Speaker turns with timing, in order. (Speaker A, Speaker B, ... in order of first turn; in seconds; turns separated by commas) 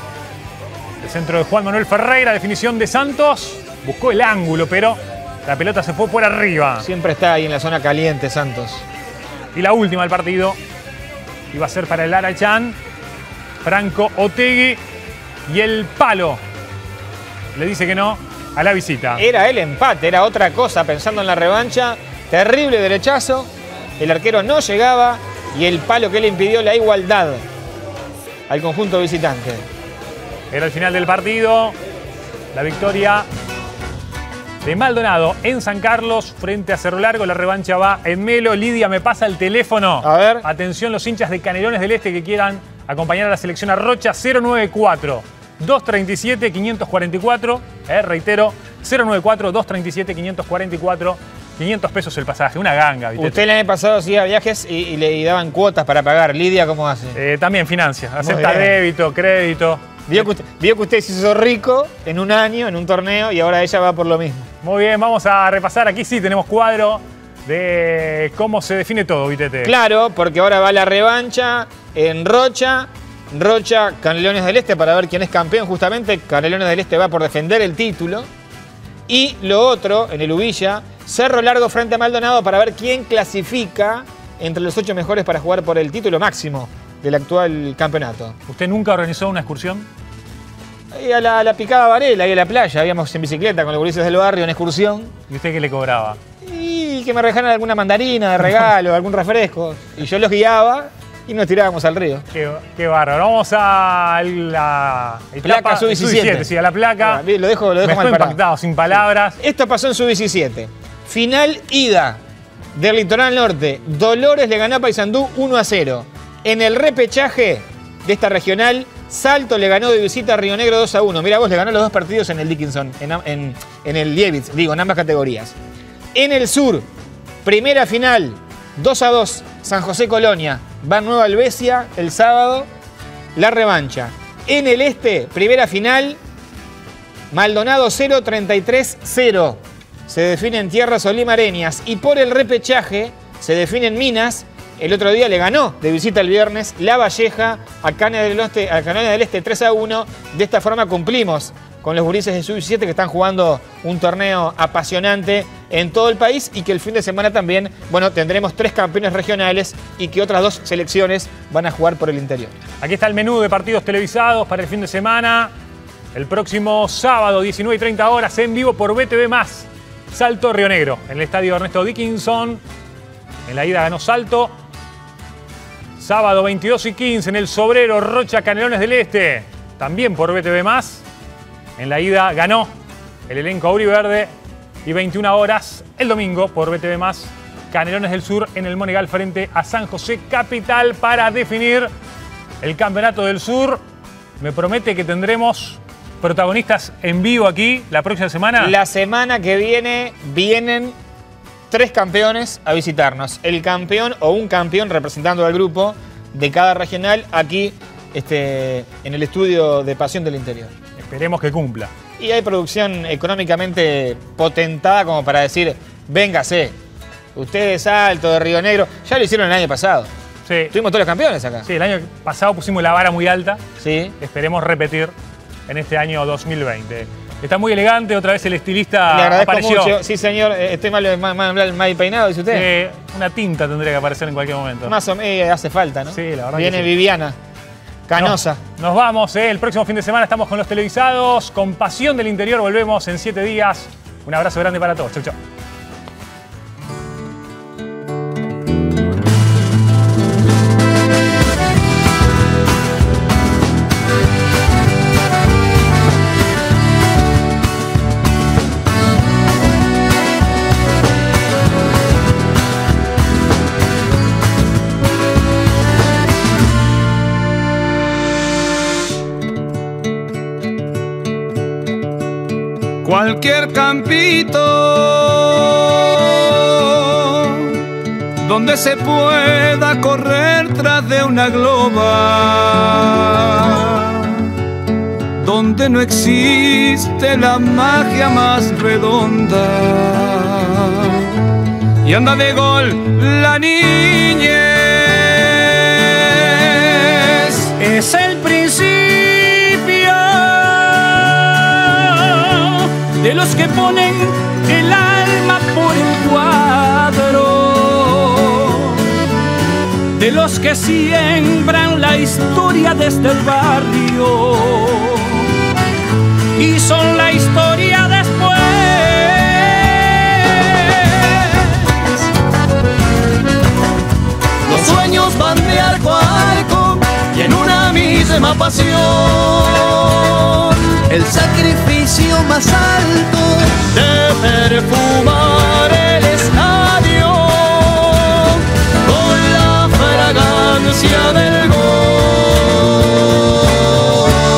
Speaker A: 1.0-6.8, Speaker B: 6.8-8.8, Speaker A: 9.5-10.6, Speaker A: 11.5-12.8, Speaker A: 13.6-14.8, Speaker A: 15.5-16.4, Speaker A: 17.5-19.2, Speaker B: 19.2-27.4, Speaker B: 28.5-29.6, Speaker A: 30.5-31.8, Speaker A: 32.5-33.3, Speaker A: 34.6-53.4, Speaker B: 40.0-40.4, Speaker B: 53.2-57.2, Speaker A: 57.1-60.3, Speaker B: 58.2-58.7, Speaker B: 60.1-64.5, Speaker A: 64.6-69.7, Speaker B: 69.6-78.3, Speaker B: 79.1-88.4, Speaker A: 88.5-89.9, Speaker B: 90.9-95.1, Speaker A: 95.3-96.2, Speaker B: 96.4-102.2, Speaker A: 102.3-107.2, Speaker B: 105.4-108.4, Speaker A: 107.8-109.4, Speaker B: 109.4-112.2, Speaker B: 112.7-125.5, Speaker B: 126.1-126.8, Speaker B: 127.4-132.7, Speaker B: 133.3-136.2, Speaker B: 137.3-162.5, Speaker A: 162.8-165.5, Speaker A: 166.1-172.6, Speaker A: 173.5-174.5, Speaker A: 176.0-181.0, Speaker A: 181.8-182.7, Speaker A: 183.3-184.3, Speaker A: 184.8-191.9, Speaker A: 192.6-193.8, Speaker A: 194.4-198.7, Speaker B: 198.6-200.9, Speaker B: 201.7-210.7, Speaker A: 211.0-211.9, Speaker B: 212.2-216.8, Speaker B: 217.3-220.1, Speaker A: 220.4-220.7, Speaker B: 220.7-221.7, Speaker A: 221.7-223.6, Speaker B: 223.8-224.1, Speaker A: 224.2-225.1, Speaker A: 225.7-229.9, Speaker B: 229.1-232.7, Speaker A: 232.5-234.9, Speaker B: 234.8-237.3, Speaker A: 236.1-236.9, Speaker B: 238.1-238.6, Speaker A: 238.2-245.4, Speaker C: 273.0-277.8, Speaker C: 278.4-284.5, Speaker C: 285.4-291.3, Speaker C: 292.0-297.7, Speaker D: 297.8-309.1, Speaker D: 310.1-315.4, Speaker D: 316.6-322.2, Speaker E: 324.6-330.4, Speaker E: 330.9-343.3